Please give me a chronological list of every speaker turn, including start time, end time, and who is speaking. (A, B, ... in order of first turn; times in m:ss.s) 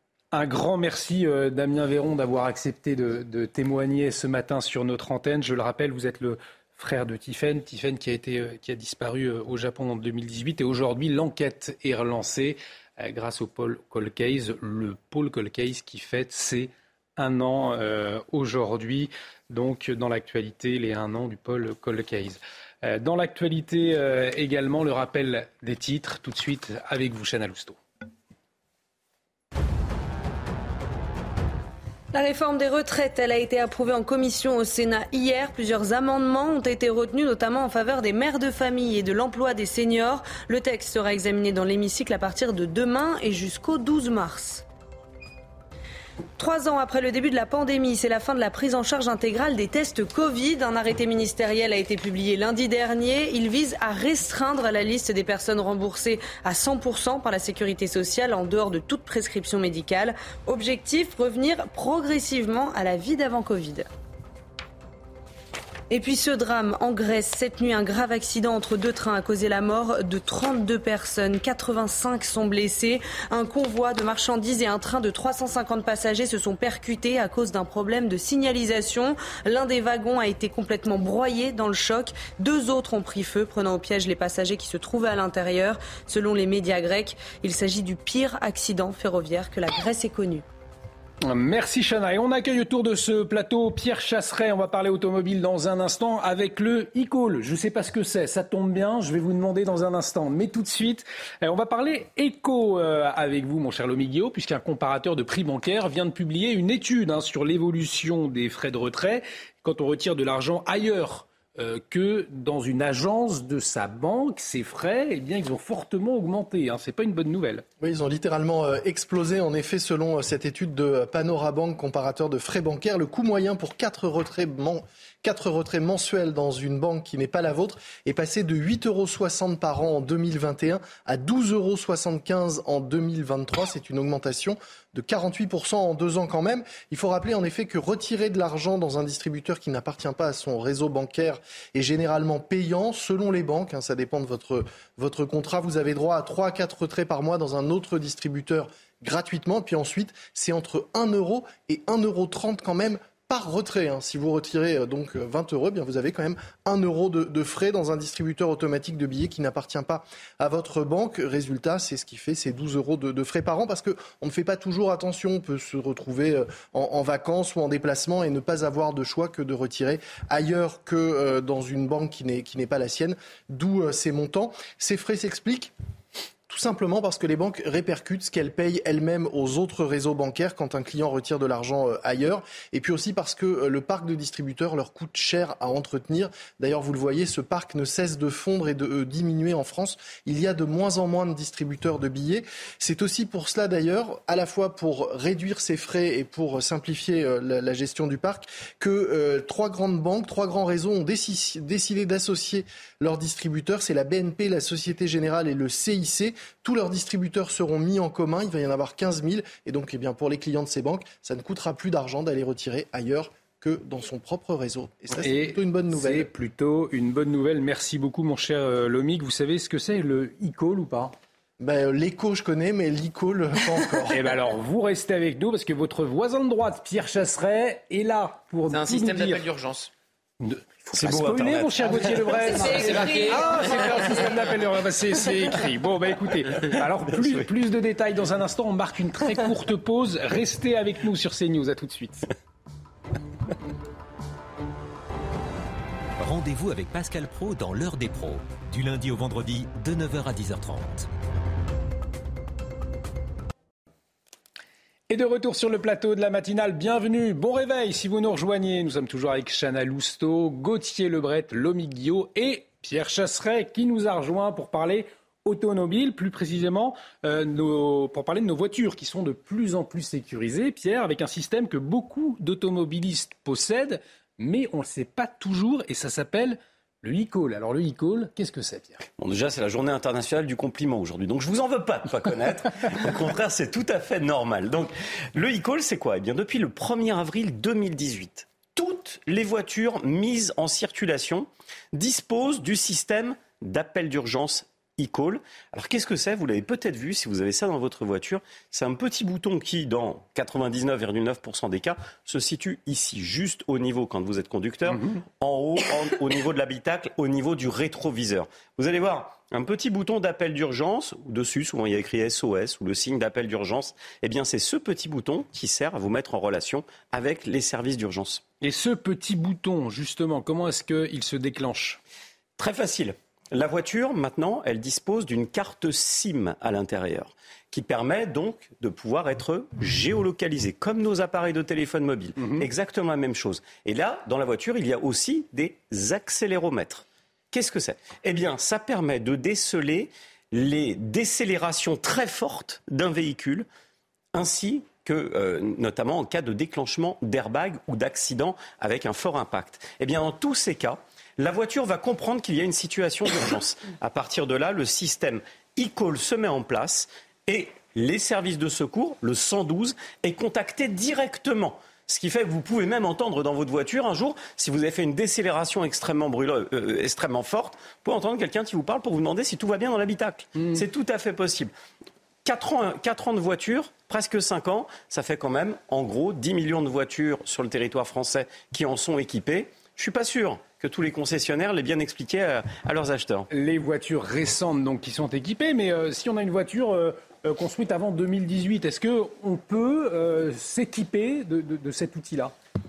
0:00.3-0:27.8 A
0:32.1-0:44.6 B
0:46.4-1:03.9 B
1:05.9-1:30.4 B
1:31.3-1:57.6 A
1:57.8-2:55.7 C
2:56.5-3:36.3 C
3:35.1-3:41.1 A
3:41.6-3:44.2 C
3:44.1-3:49.4 A
3:48.7-3:49.9 D
3:50.4-4:02.3 A
3:50.9-3:52.9 E
3:52.5-3:54.3 B
3:52.6-3:54.2 D
4:06.2-4:11.0 F
4:15.1-4:39.0 A
4:39.2-5:18.4 E
5:18.6-5:22.0 A
5:22.6-5:43.7 E
5:32.4-5:32.6 A
5:44.3-6:11.7 E
6:12.4-6:23.5 E
6:23.5-6:32.5 A